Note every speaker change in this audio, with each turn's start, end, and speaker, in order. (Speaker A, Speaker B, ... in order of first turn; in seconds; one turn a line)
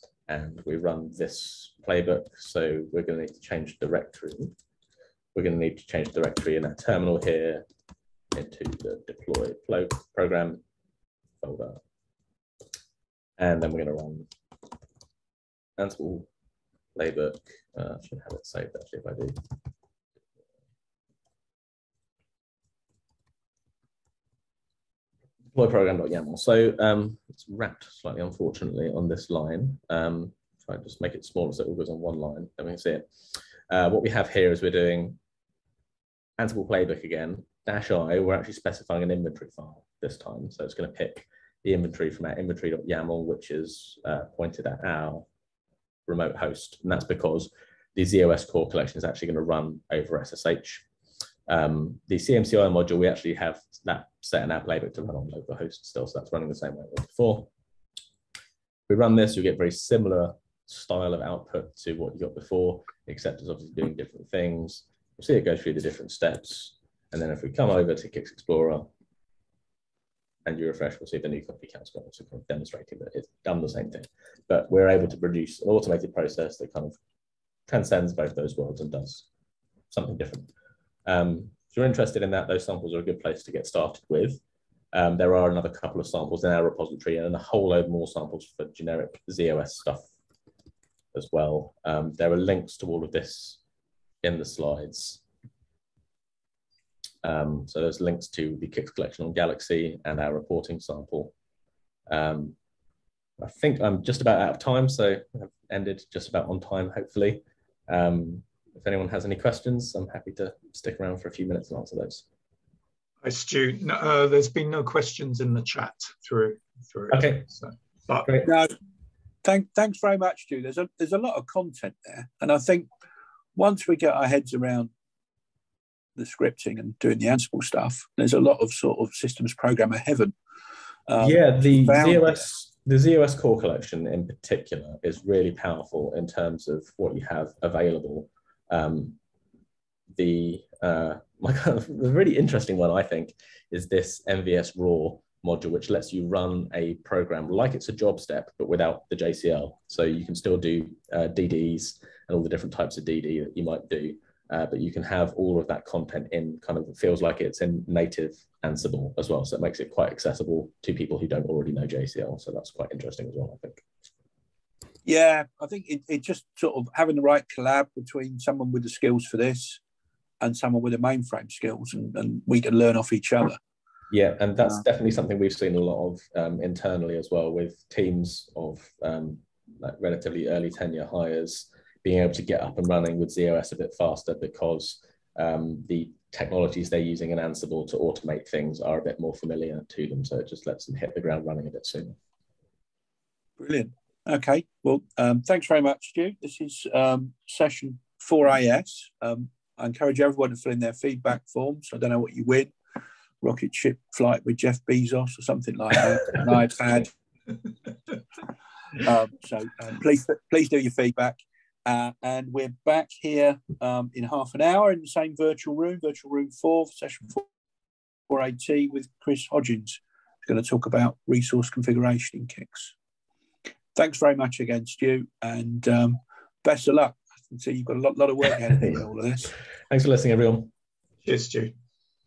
Speaker A: 0.3-4.5
Speaker A: 5.3-7.7
Speaker A: 8.3-10.6
Speaker A: 11.4-11.8
Speaker A: 13.4-14.3
Speaker A: 15.8-16.3
Speaker A: 17.0-19.4
Speaker A: 25.5-33.1
Speaker A: 33.7-35.2
Speaker A: 36.4-45.3
Speaker A: 46.1-50.9
Speaker A: 51.5-57.5
Speaker A: 58.9-68.9
Speaker A: 70.5-77.0
Speaker A: 77.7-79.3
Speaker A: 79.9-80.5
Speaker A: 81.1-84.4
Speaker A: 84.9-90.1
Speaker A: 91.1-93.6
Speaker A: 94.2-95.2
Speaker A: 97.2-101.3
Speaker A: 102.1-102.6
Speaker A: 103.4-112.3
Speaker B: 113.2-118.3
Speaker A: 117.1-117.5
Speaker C: 118.4-118.7
Speaker C: 119.4-122.9
Speaker C: 123.5-124.9
Speaker C: 126.2-130.3
Speaker C: 131.1-132.4
Speaker A: 131.2-139.2
Speaker A: 140.2-163.8
Speaker C: 165.1-169.8
Speaker C: 170.4-173.6
Speaker A: 174.1-192.2
Speaker C: 193.6-202.7
Speaker C: 203.4-207.1
Speaker C: 209.0-217.5
Speaker C: 218.3-222.9
Speaker C: 223.9-229.5
Speaker A: 229.9-230.7
Speaker B: 231.2-231.7